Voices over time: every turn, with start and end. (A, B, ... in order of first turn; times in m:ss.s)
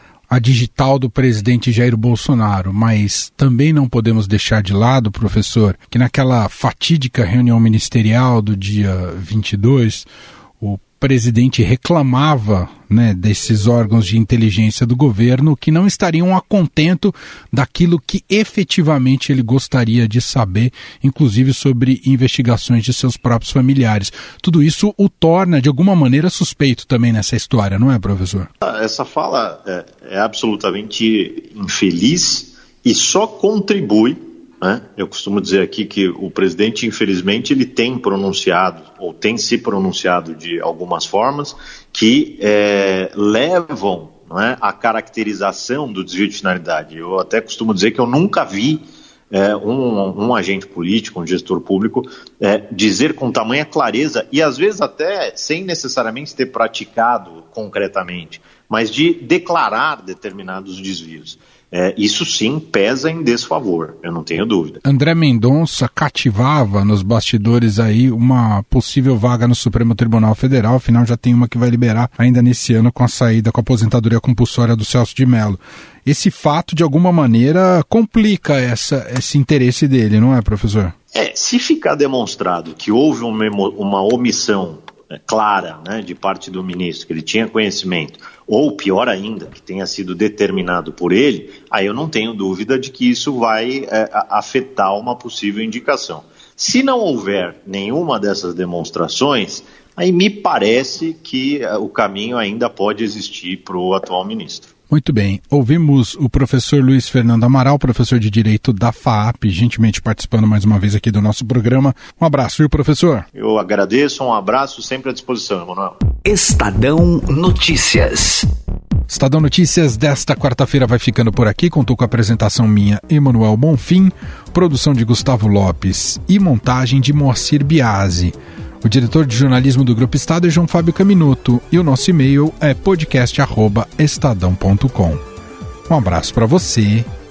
0:00.3-0:10.1 A
0:10.6-0:28.5 A
0:28.6-1:04.8 B
1:04.8-1:20.9 A
1:21.1-1:44.7 B
1:44.9-1:53.3 A
1:53.3-1:56.0 B
1:56.2-1:58.4 C
1:59.1-2:15.2 A
2:15.9-2:17.1 A